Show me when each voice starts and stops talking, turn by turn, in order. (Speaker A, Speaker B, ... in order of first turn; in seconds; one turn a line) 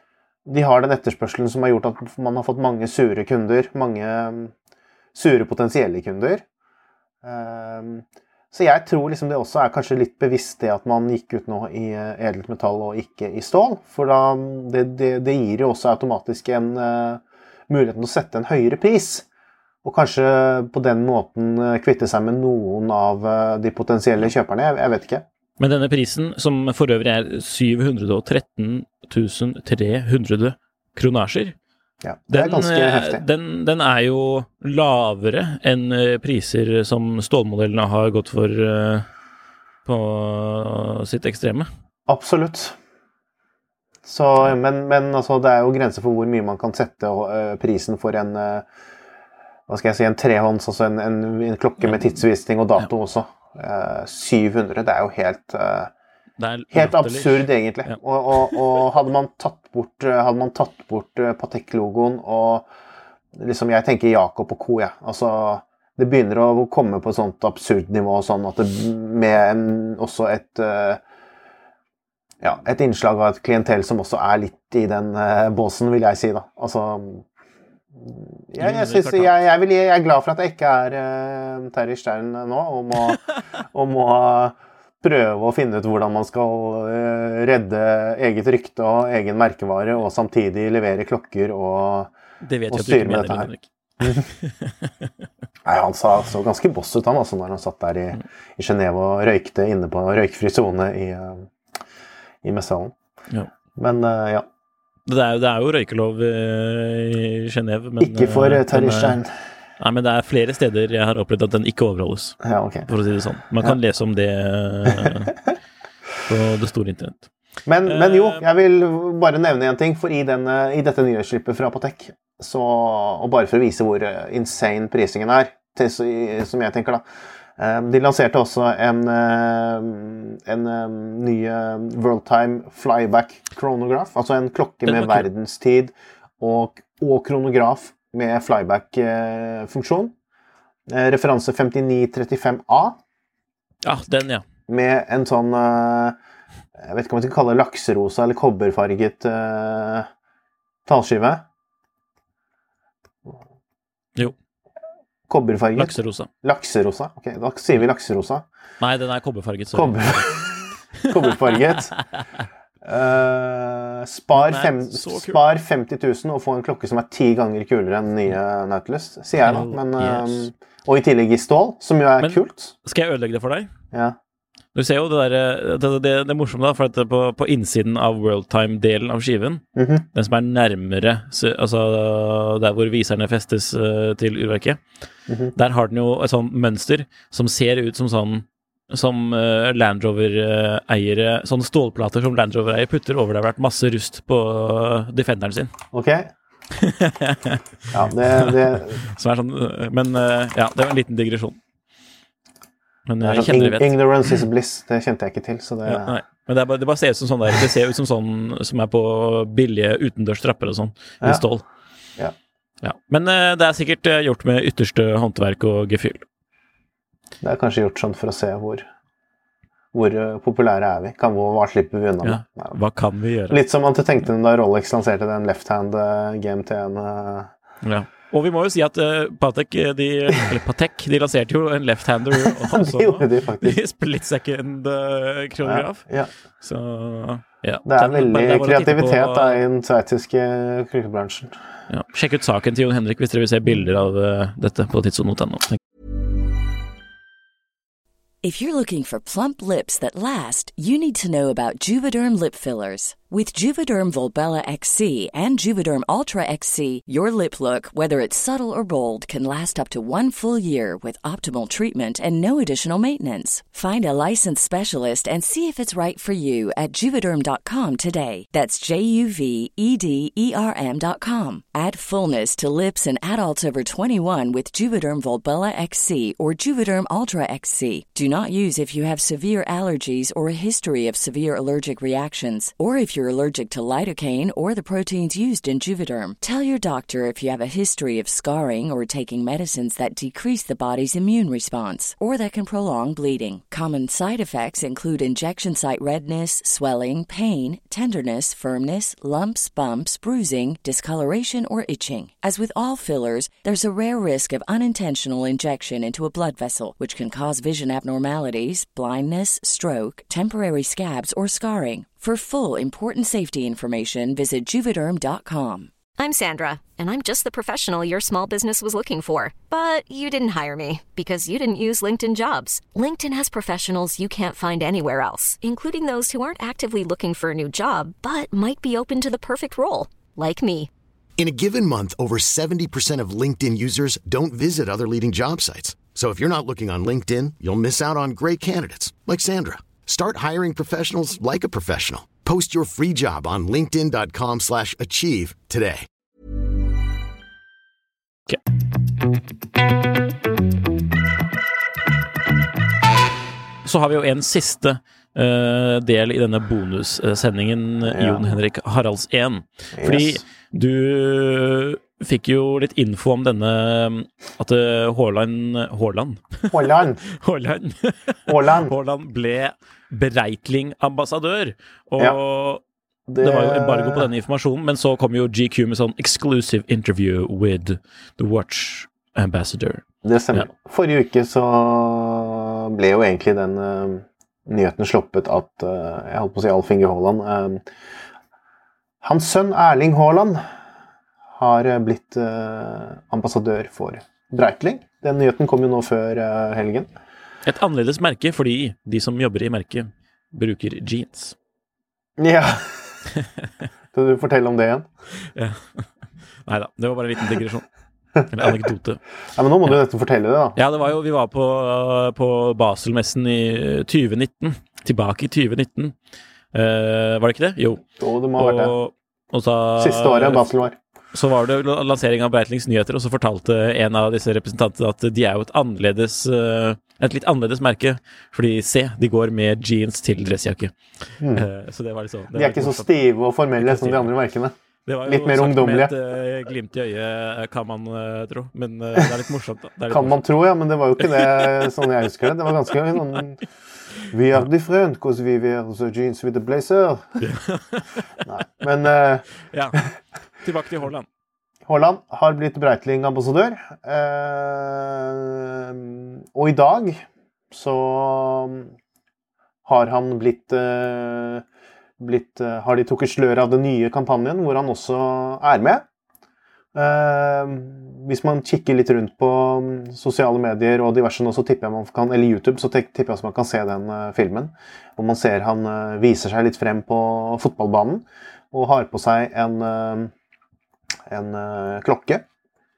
Speaker A: 0.5-4.5
Speaker A: 5.1-6.4
Speaker A: 7.2-19.3
Speaker A: 19.8-25.3
Speaker B: 25.6-31.6
Speaker A: 32.0-33.3
Speaker B: 32.3-39.1
Speaker B: 39.9-41.7
Speaker A: 42.1-42.8
Speaker A: 44.0-48.6
Speaker A: 49.7-55.9
Speaker B: 56.4-58.6
Speaker A: 56.7-62.7
Speaker A: 63.3-71.0
Speaker A: 72.4-77.3
Speaker A: 78.0-92.1
Speaker B: 78.6-79.4
Speaker B: 92.5-94.7
Speaker A: 92.7-93.5
Speaker A: 94.0-94.3
Speaker A: 95.7-101.5
Speaker A: 102.4-103.0
Speaker A: 103.8-104.5
Speaker B: 105.1-109.2
Speaker A: 108.0-109.3
Speaker B: 109.8-115.3
Speaker A: 112.4-112.9
Speaker A: 114.9-115.5
Speaker B: 116.2-117.3
Speaker A: 117.7-127.0
Speaker B: 117.9-118.4
Speaker A: 127.6-140.1
Speaker B: 134.8-135.3
Speaker A: 140.9-143.0
Speaker B: 143.8-144.4
Speaker A: 144.7-146.2
Speaker A: 146.8-150.1
Speaker A: 150.9-151.4
Speaker A: 155.3-158.5
Speaker B: 155.8-156.3
Speaker B: 158.8-160.4
Speaker A: 159.7-162.0
Speaker A: 162.8-172.7
Speaker B: 164.3-165.4
Speaker B: 169.4-170.5
Speaker B: 172.2-173.7
Speaker B: 174.8-184.8
Speaker A: 179.8-180.1
Speaker B: 185.6-195.7
Speaker A: 195.9-196.3
Speaker B: 196.8-197.6
Speaker A: 197.9-199.0
Speaker B: 198.3-201.6
Speaker B: 203.1-204.3
Speaker A: 203.2-206.1
Speaker B: 205.8-211.7
Speaker B: 212.8-216.2
Speaker A: 217.4-218.9
Speaker A: 219.9-222.8
Speaker B: 222.2-223.6
Speaker A: 223.5-227.5
Speaker B: 227.8-239.6
Speaker A: 232.6-233.8
Speaker A: 235.6-236.3
Speaker A: 237.9-241.6
Speaker B: 241.9-245.8
Speaker C: 248.4-315.9
Speaker D: 316.2-330.9
Speaker E: 331.4-346.1
Speaker B: 353.8-372.8
Speaker A: 358.1-358.6
Speaker A: 360.0-360.4
Speaker A: 366.7-367.2
Speaker A: 368.5-368.9
Speaker A: 373.3-374.3
Speaker B: 373.4-380.7
Speaker A: 380.2-387.8
Speaker A: 389.2-390.6
Speaker A: 391.6-397.1
Speaker B: 397.6-401.6
Speaker A: 402.4-403.2
Speaker A: 404.1-405.1
Speaker B: 405.5-406.1
Speaker B: 406.7-407.9
Speaker A: 408.4-408.8
Speaker B: 408.4-409.2
Speaker A: 409.6-410.8
Speaker B: 410.8-416.1
Speaker B: 416.7-418.0
Speaker A: 418.2-419.0
Speaker B: 418.6-420.7
Speaker A: 420.0-421.0
Speaker B: 421.3-430.9
Speaker A: 431.4-431.7
Speaker B: 431.5-433.1
Speaker A: 432.5-436.1
Speaker B: 433.8-434.3
Speaker B: 435.1-440.4
Speaker A: 440.1-443.6
Speaker B: 441.2-442.0
Speaker A: 444.3-447.4
Speaker B: 447.4-448.4
Speaker A: 448.5-449.5
Speaker B: 449.7-450.0
Speaker B: 450.6-451.3
Speaker A: 451.9-458.9
Speaker A: 459.9-461.6
Speaker A: 462.2-466.1
Speaker A: 466.9-480.3
Speaker A: 481.3-482.4